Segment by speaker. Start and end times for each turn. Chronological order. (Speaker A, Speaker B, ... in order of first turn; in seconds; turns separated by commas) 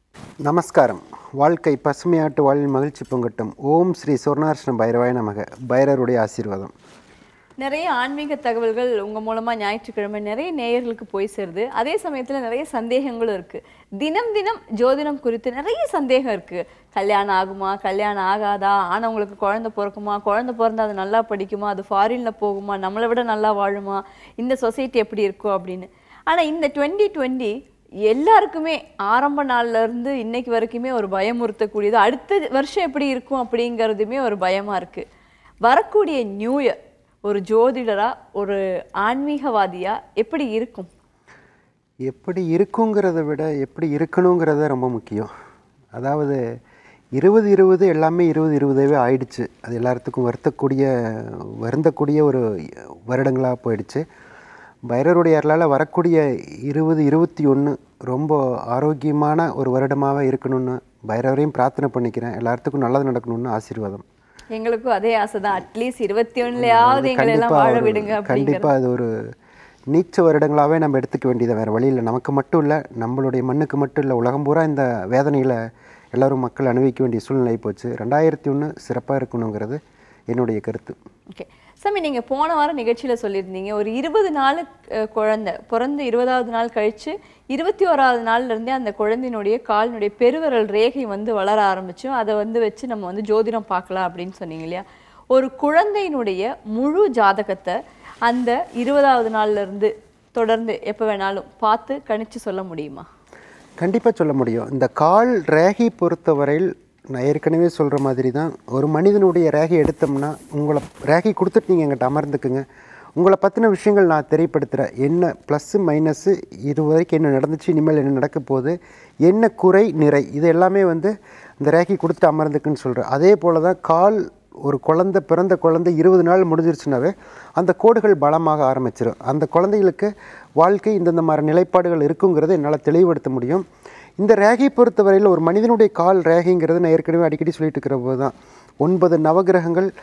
Speaker A: 0.5-6.7, Speaker B: 7.6-27.5, Speaker B: 28.1-35.0, Speaker B: 35.6-40.9, Speaker A: 42.1-45.3, Speaker A: 45.9-46.4, Speaker A: 47.1-54.0, Speaker A: 54.9-64.0, Speaker B: 64.5-68.7, Speaker A: 66.6-69.1, Speaker A: 69.9-75.6, Speaker A: 76.1-79.8, Speaker A: 80.3-81.0, Speaker B: 81.3-103.0, Speaker A: 103.8-112.6, Speaker A: 113.2-133.6, Speaker A: 134.2-139.9